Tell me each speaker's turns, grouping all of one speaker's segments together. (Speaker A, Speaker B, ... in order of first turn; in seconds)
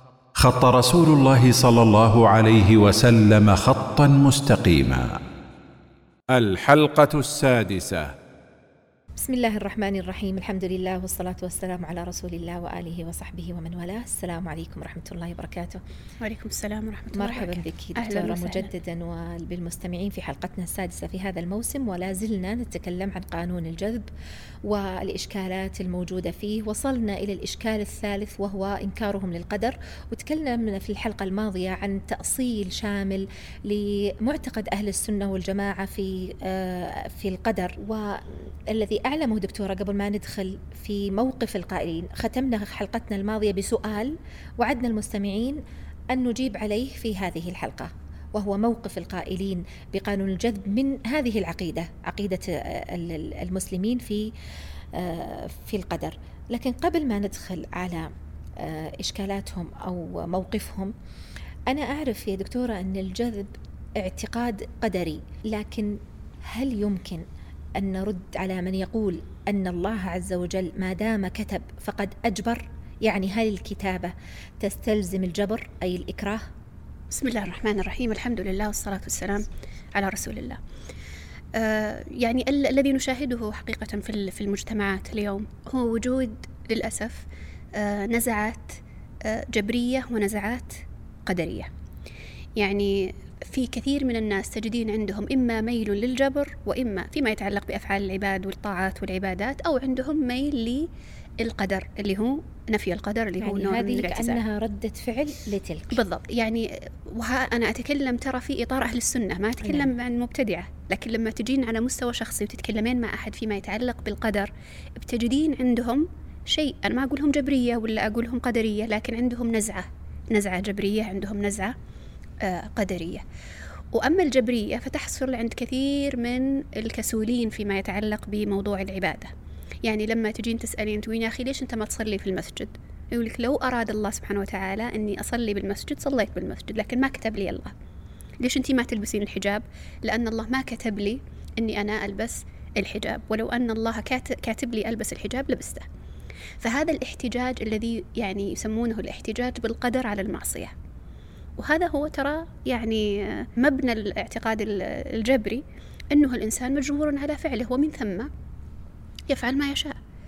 Speaker A: 0.4-5.2, 6.3-8.1
Speaker B: 9.2-15.8, 17.1-24.1, 24.6-45.6, 46.1-54.3, 54.9-60.9, 61.7-67.2, 67.8-76.5, 103.4-106.0, 109.6-109.9
Speaker C: 16.2-18.7, 77.1-80.6, 81.5-91.7, 92.6-100.9, 101.4-104.4, 105.9-121.7, 122.4-123.2, 123.9-129.3, 129.8-137.7, 138.4-145.8, 146.6-150.7, 151.6-158.3, 159.3-159.9